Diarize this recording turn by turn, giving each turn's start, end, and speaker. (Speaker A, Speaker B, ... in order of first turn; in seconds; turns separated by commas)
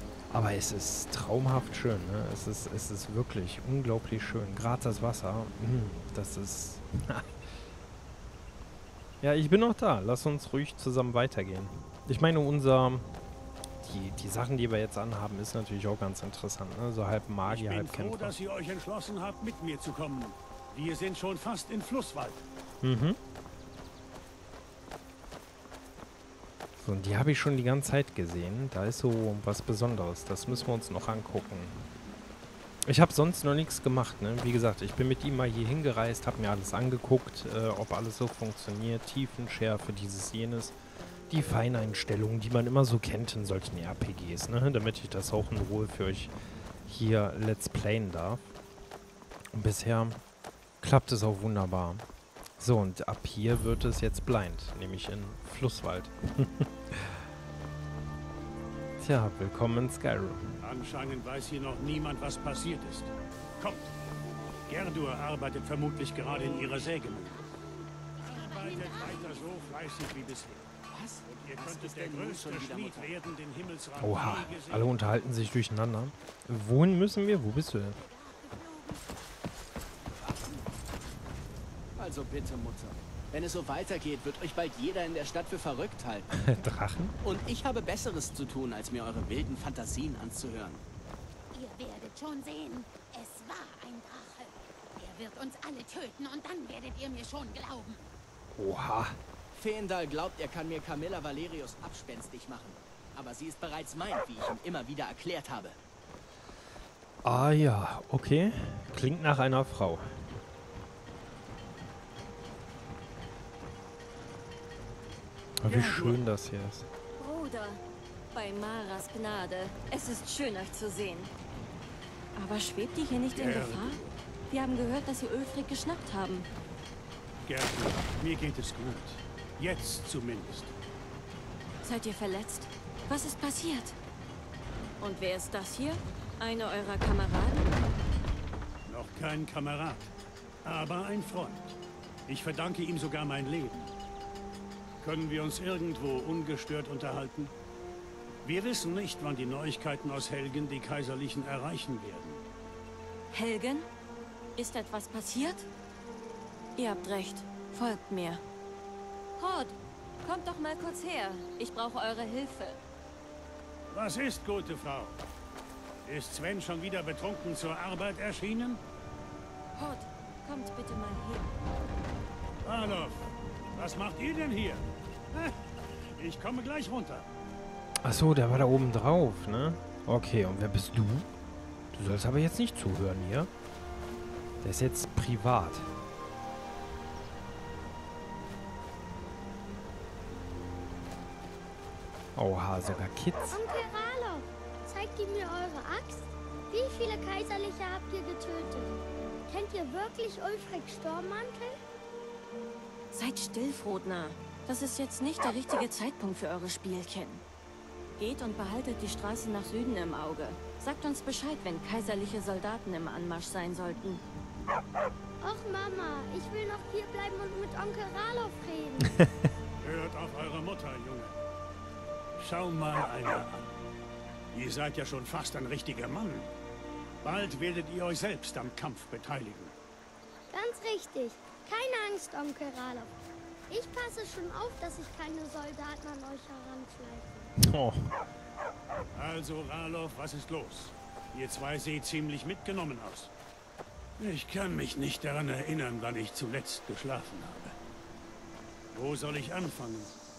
Speaker A: 0.3-7.3, Speaker A: 9.2-13.2, Speaker A: 13.8-18.4, Speaker B: 17.5-22.4, Speaker A: 22.8-23.2, Speaker A: 26.8-31.9, Speaker A: 32.9-40.8, Speaker A: 41.3-46.3, Speaker A: 46.9-48.5, Speaker A: 49.5-50.2, Speaker A: 50.8-52.0, Speaker A: 52.6-57.2, Speaker A: 59.0-60.6, Speaker B: 60.6-63.9, Speaker B: 64.7-67.5, Speaker C: 66.3-69.8, Speaker B: 68.2-70.7, Speaker D: 70.9-73.2, Speaker B: 71.3-75.0, Speaker A: 74.0-78.0, Speaker C: 77.2-79.2, Speaker D: 80.1-80.7, Speaker D: 82.0-86.3, Speaker A: 86.3-87.1, Speaker D: 87.2-90.8, Speaker C: 91.5-98.1, Speaker A: 98.6-99.2, Speaker D: 99.5-105.8, Speaker A: 107.2-110.3, Speaker A: 115.6-116.9, Speaker B: 115.7-116.2, Speaker E: 117.2-117.8, Speaker E: 118.3-121.3, Speaker E: 122.4-126.5, Speaker B: 123.3-124.2, Speaker B: 127.5-130.7, Speaker E: 131.8-134.0, Speaker E: 135.0-137.9, Speaker B: 138.9-140.0, Speaker B: 140.7-143.9, Speaker B: 145.0-147.5, Speaker B: 148.4-152.4, Speaker E: 153.3-153.9, Speaker E: 154.6-155.7, Speaker E: 156.8-158.4, Speaker E: 159.4-162.8, Speaker B: 163.9-165.2, Speaker B: 166.1-168.8, Speaker E: 169.8-171.5, Speaker B: 172.6-177.3, Speaker A: 178.0-181.3, Speaker A: 181.9-183.5, Speaker A: 184.6-185.9, Speaker A: 192.4-193.6, Speaker F: 193.5-201.8, Speaker E: 203.1-207.4, Speaker E: 208.2-214.2, Speaker F: 215.4-219.2, Speaker B: 219.8-221.3, Speaker B: 222.4-223.7, Speaker B: 224.5-226.5, Speaker B: 227.2-229.7, Speaker F: 230.5-233.2, Speaker F: 233.7-237.5, Speaker A: 237.6-238.1, Speaker B: 239.2-243.3, Speaker B: 244.2-247.8, Speaker B: 248.9-250.1